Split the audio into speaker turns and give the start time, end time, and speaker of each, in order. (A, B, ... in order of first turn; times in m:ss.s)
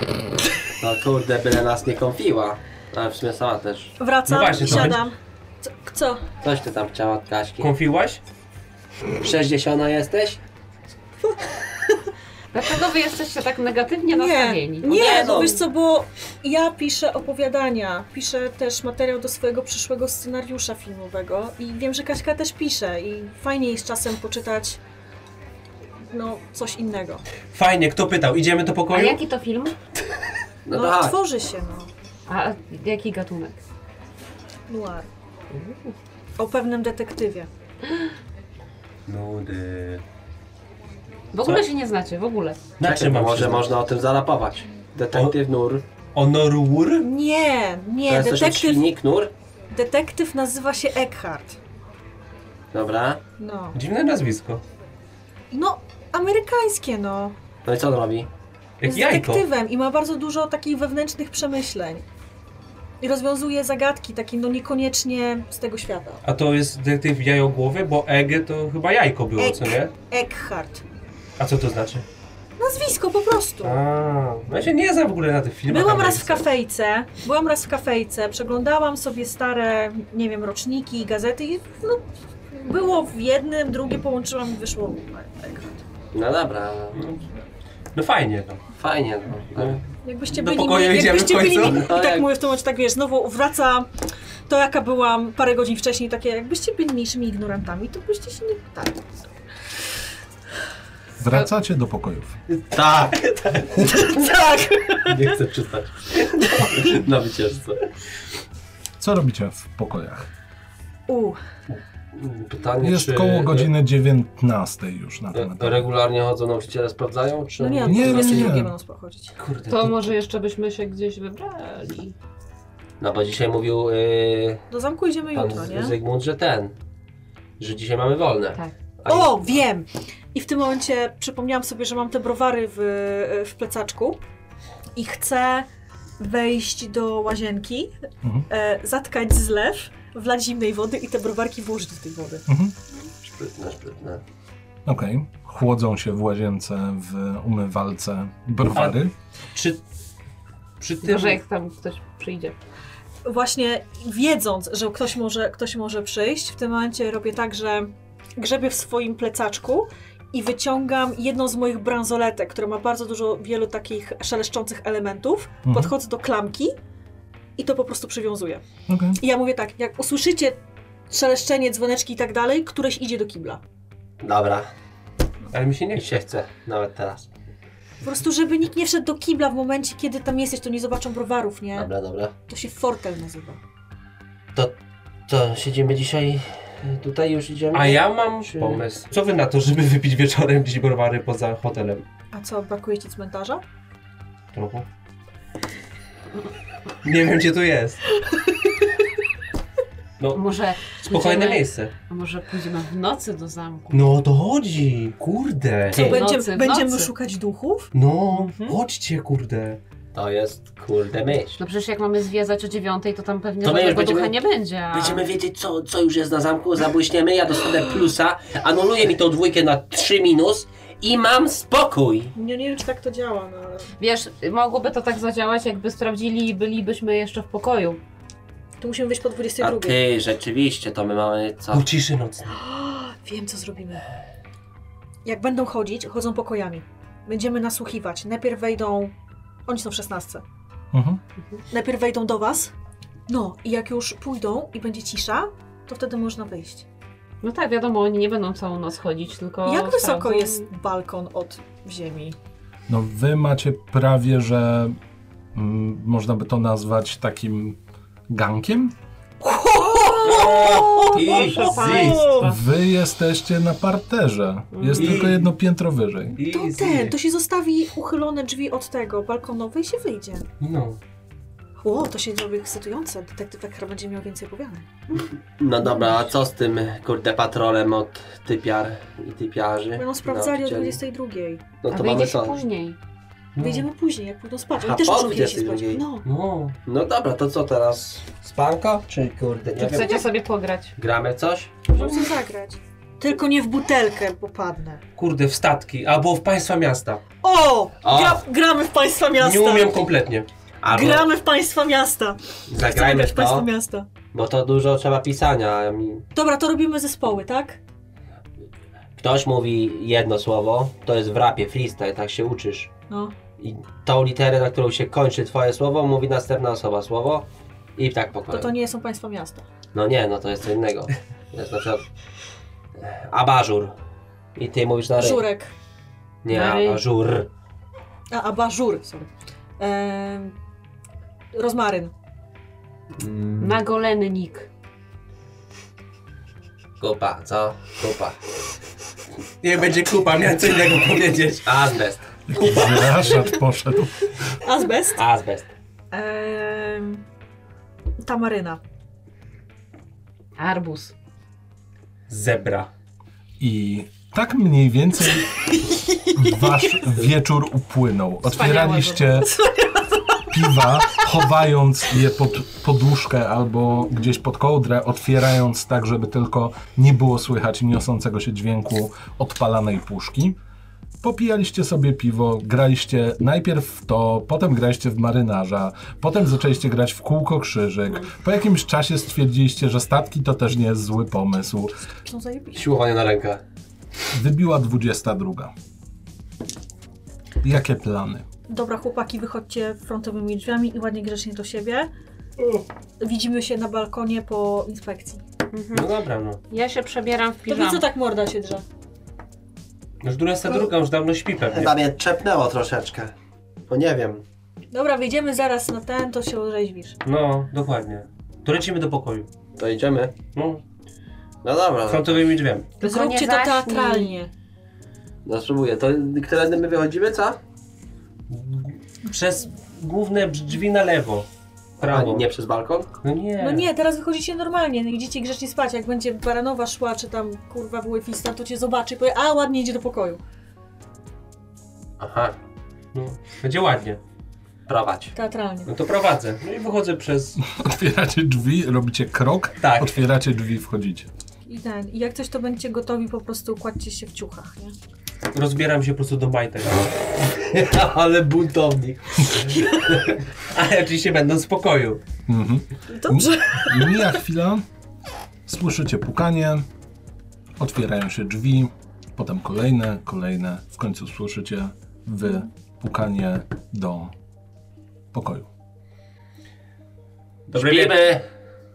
0:00.8-0:04.0 A
0:04.0-0:06.2 B
0:04.3-0:05.1 C
0:06.4-0:07.7 A
0:07.6-0:08.2 C
0:09.2-0:10.4 A
0:12.5-0:15.6 D
0:14.1-0:24.8 B
0:14.8-0:15.6 A
0:26.1-0:27.2 B
0:27.5-0:29.2 C
0:28.9-0:29.8 D
0:30.7-0:31.2 A
0:30.7-0:31.9 B
0:32.3-0:33.6 D
0:34.7-0:35.1 B
0:35.5-0:36.0 D
0:36.4-0:37.5 B
0:39.1-0:40.0 C
0:41.3-0:42.6 D
0:42.8-0:43.7 C
0:42.8-0:45.8 A
0:46.2-0:47.1 C
0:47.0-0:48.9 B
0:48.1-0:49.3 A
0:49.7-0:51.6 B
0:52.7-0:53.2 A
0:53.4-0:53.8 B
0:53.7-0:54.6 C
0:55.5-0:57.4 B
0:57.6-0:58.3 A
0:58.8-0:59.4 C
0:58.8-1:02.0 B
1:03.0-1:06.2 B
1:06.2-1:09.9 C
1:09.4-1:10.8 B
1:11.4-1:12.0 C
1:12.6-1:13.8 B
1:13.6-1:16.5 C
1:15.7-1:25.8 B
1:26.1-1:27.0 A
1:27.0-1:27.2 C
1:28.0-1:28.6 C
1:28.8-1:29.8 A
1:29.5-1:31.9 C
1:30.0-1:33.9 B
1:31.6-1:32.3 A
1:34.5-1:39.0 B
1:41.2-1:42.4 E
1:42.7-1:44.0 A
1:43.8-1:45.1 B
1:45.0-1:47.8 A
1:49.0-1:50.3 E
1:51.1-1:51.4 B
1:52.1-1:53.7 A
1:52.8-1:55.9 E
1:55.3-1:58.6 A
1:57.6-1:59.4 B
1:57.8-1:58.7 E
1:59.4-2:00.1 C
1:59.7-2:02.2 D
2:03.0-2:04.6 A
2:04.7-2:06.0 B
2:05.3-2:06.7 A
2:07.6-2:09.6 A
2:09.1-2:14.2 B
2:15.0-2:15.7 B
2:16.2-2:17.9 B
2:18.2-2:18.5 E
2:18.5-2:22.5 B
2:22.5-2:22.7 E
2:23.2-2:24.2 A
2:24.9-2:29.1 E
2:28.7-2:29.0 C
2:29.6-2:29.8 C
2:30.8-2:31.4 C
2:31.0-2:32.6 D
2:33.2-2:46.8 B
2:45.7-2:45.9 E
2:47.6-2:48.6 B
2:48.9-2:49.2 E
2:49.2-2:50.6 B
2:51.1-2:53.6 B
2:54.2-2:54.7 A
2:55.5-2:56.2 C
2:56.0-2:57.3 A
2:58.0-3:01.9 B
3:01.8-3:02.3 A
3:02.5-3:03.6 B
3:05.3-3:08.8 A
3:07.7-3:12.0 C
3:12.3-3:13.6 B
3:14.5-3:14.9 C
3:17.0-3:18.0 C
3:20.2-3:21.9 C
3:20.3-3:24.0 D
3:23.9-3:26.2 C
3:25.9-3:27.9 B
3:25.9-3:27.1 D
3:27.9-3:29.8 C
3:28.3-3:28.8 D
3:30.1-3:31.6 A
3:31.6-3:35.2 D
3:33.6-3:34.4 A
3:34.9-3:42.3 A
3:42.4-3:43.9 B
3:44.0-3:48.0 D
3:48.8-3:50.0 B
3:49.6-3:51.9 A
3:51.7-3:52.6 C
3:52.5-3:54.1 B
3:55.2-3:59.1 B
3:59.7-4:00.4 B
4:00.9-4:01.2 E
4:01.7-4:02.7 B
4:03.3-4:06.9 B
4:07.4-4:10.7 D
4:09.6-4:12.4 B
4:12.9-4:15.0 E
4:15.5-4:17.8 E
4:18.3-4:18.9 E
4:19.4-4:22.5 B
4:20.2-4:22.3 C
4:21.0-4:22.6 D
4:22.4-4:26.4 E
4:24.7-4:25.3 D
4:24.9-4:25.5 C
4:26.4-4:27.2 C
4:26.4-4:30.5 B
4:30.6-4:31.0 C
4:31.8-4:34.9 B
4:35.6-4:41.0 A
4:40.0-4:41.7 B
4:41.8-4:42.6 A
4:41.9-4:43.0 D
4:43.6-4:43.9 C
4:43.6-4:46.3 B
4:44.8-4:46.0 A
4:46.2-4:46.8 C
4:46.9-4:50.3 A
4:49.8-4:51.0 D
4:51.0-4:51.7 A
4:51.9-4:55.0 B
4:55.2-4:57.2 C
4:57.4-5:00.0 B
4:58.0-4:58.4 A
4:59.4-5:00.5 C
5:00.8-5:01.3 A
5:00.9-5:04.1 B
5:02.7-5:03.7 A
5:04.3-5:06.3 A
5:06.3-5:07.8 B
5:09.2-5:12.9 A
5:13.1-5:13.4 B
5:13.6-5:18.7 A
5:18.5-5:19.6 B
5:19.9-5:22.1 A
5:23.0-5:24.0 A
5:24.6-5:25.5 A
5:25.2-5:25.7 B
5:26.4-5:27.5 A
5:26.5-5:27.0 D
5:28.3-5:30.6 B
5:31.5-5:32.1 B
5:33.2-5:33.7 A
5:33.6-5:34.7 D
5:37.0-5:38.4 A
5:39.6-5:41.7 C
5:41.6-5:43.3 A
5:42.5-5:44.4 E
5:44.6-5:45.2 B
5:45.2-5:45.7 A
5:46.1-5:47.2 B
5:48.2-5:48.8 B
5:50.6-5:51.1 D
5:52.3-5:52.9 C
5:53.6-5:55.5 E
5:55.9-5:56.9 B
5:56.4-5:59.6 E
5:58.5-5:59.5 D
5:59.5-6:00.4 B
6:00.5-6:10.6 E
6:11.2-6:21.9 E
6:22.3-6:22.8 B
6:22.7-6:23.6 A
6:24.3-6:25.7 E
6:27.6-6:28.5 E
6:28.7-6:32.1 B
6:33.2-6:35.4 B
6:35.7-6:36.1 D
6:35.9-6:36.6 C
6:36.7-6:38.0 D
6:37.7-6:38.8 B
6:40.2-6:41.9 C
6:41.7-6:43.3 A
6:43.9-6:44.4 A
6:44.9-6:47.2 B
6:47.2-6:49.5 C
6:49.8-6:50.4 A
6:50.5-6:50.8 C
6:51.6-6:52.4 A
6:52.1-6:53.0 C
6:53.0-6:54.4 D
6:53.0-6:54.5 B
6:55.4-6:57.6 A
6:58.5-7:01.5 C
7:02.0-7:02.5 C
7:02.0-7:03.1 A
7:03.2-7:03.9 C
7:03.6-7:10.4 B
7:12.2-7:12.6 A
7:13.1-7:14.2 C
7:14.9-7:15.4 A
7:15.4-7:15.9 B
7:15.9-7:17.6 C
7:17.6-7:21.3 E
7:19.8-7:20.2 C
7:21.7-7:25.0 B
7:25.5-7:27.1 C
7:27.6-7:29.6 A
7:29.7-7:32.2 C
7:32.5-7:34.8 E
7:33.1-7:34.4 B
7:35.7-7:36.9 E
7:37.8-7:44.3 E
7:45.3-7:45.7 E
7:47.7-7:48.4 C
7:47.7-7:48.5 A